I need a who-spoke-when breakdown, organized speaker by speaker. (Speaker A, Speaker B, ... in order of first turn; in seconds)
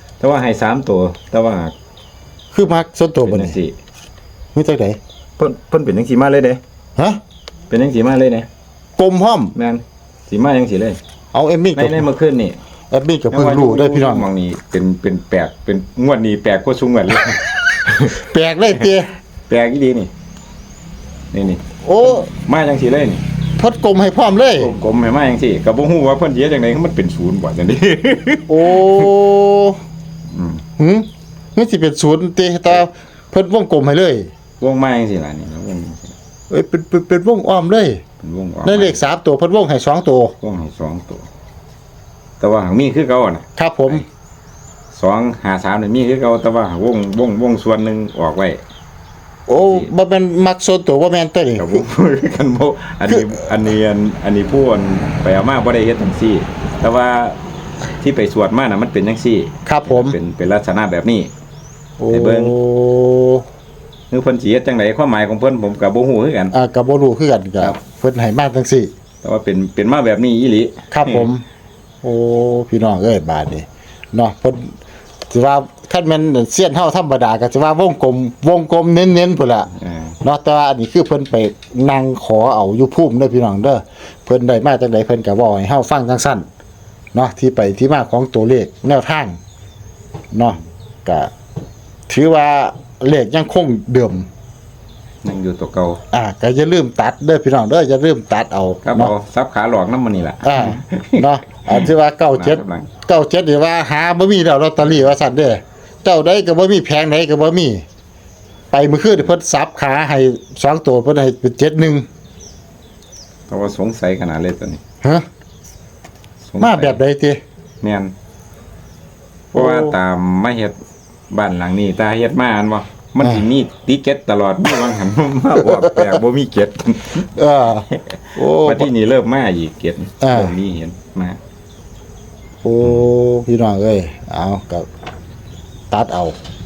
Speaker A: 0.2-1.7, 3.2-3.8, 5.4-6.6, 7.7-8.5, 9.6-11.0, 11.8-12.6, 13.3-18.2, 19.5-20.1, 21.3-23.2, 24.6-29.1, 30.3-30.6, 34.6-36.1, 38.2-39.0, 40.4-41.3, 42.4-44.0, 44.9-48.6, 49.5-49.9, 51.6-57.4, 58.0-61.3, 62.1-62.5, 64.1-66.5, 69.2-71.3, 79.8-80.2, 95.2-96.0, 98.8-102.9, 113.5-114.8, 116.5-117.0, 117.8-118.1, 119.5-120.8, 121.3-127.3, 127.9-131.4
Speaker B: 2.5-3.6, 4.5-5.0, 9.0-9.5, 11.3-12.1, 12.9-14.3, 18.1-19.1, 21.9-22.3, 23.6-24.7, 28.5-29.8, 30.8-34.3, 36.5-38.0, 38.6-40.4, 43.6-44.0, 49.5-51.8, 59.7-60.2, 62.0-63.4, 66.5-68.9, 70.9-71.4, 72.0-74.8, 75.3-86.5, 87.1-89.4, 90.3-91.3, 92.1-94.3, 96.1-99.1, 100.4-107.8, 108.7-112.1, 116.6-117.4, 119.5-120.0, 125.8-126.1, 127.3-128.9, 130.2-130.5, 132.6-134.9, 135.9-136.4